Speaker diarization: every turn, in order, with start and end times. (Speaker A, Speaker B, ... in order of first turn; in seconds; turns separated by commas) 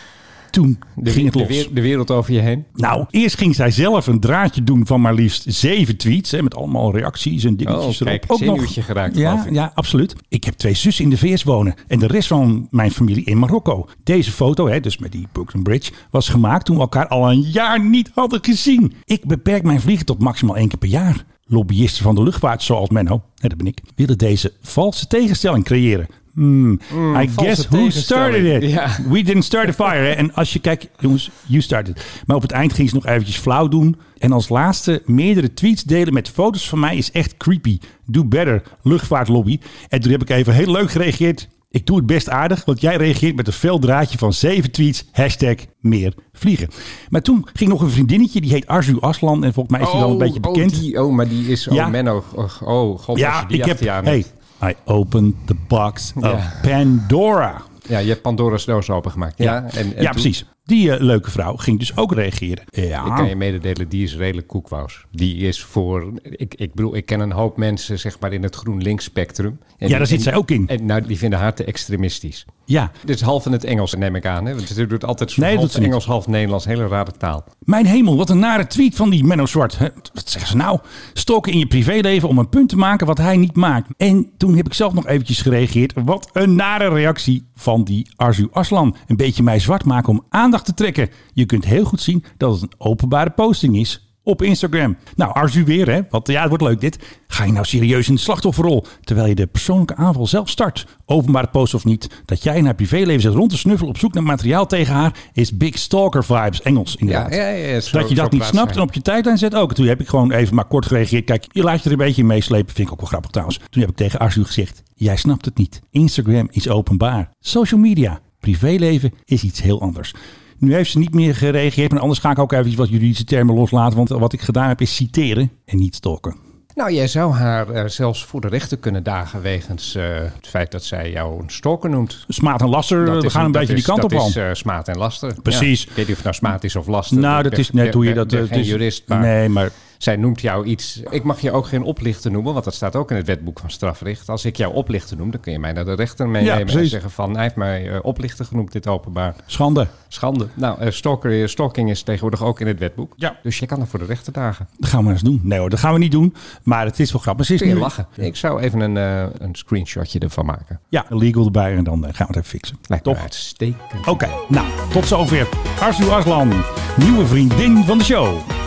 Speaker A: 0.5-1.7, Speaker B: 1.0-2.7, Speaker A: 2.8-50.8, Speaker B: 7.7-9.5, Speaker B: 26.9-29.1, Speaker B: 49.8-54.2, Speaker A: 51.7-52.0, Speaker A: 53.1-57.7, Speaker B: 56.2-56.6, Speaker B: 57.9-60.3, Speaker A: 59.4-63.3, Speaker B: 63.0-72.5, Speaker A: 69.9-70.7, Speaker B: 73.0-77.5, Speaker A: 75.4-76.0, Speaker A: 77.7-107.4, Speaker B: 107.1-108.8, Speaker A: 107.9-126.4, Speaker B: 126.8-132.3, Speaker A: 132.3-134.4, Speaker B: 133.0-139.3, Speaker A: 135.4-135.9, Speaker A: 137.1-139.7, Speaker B: 140.0-149.4, Speaker A: 146.4-147.0, Speaker A: 149.5-149.9, Speaker B: 150.1-154.7, Speaker A: 154.8-157.9, Speaker B: 157.6-160.8, Speaker A: 160.9-163.2, Speaker B: 162.9-164.2, Speaker A: 164.1-168.5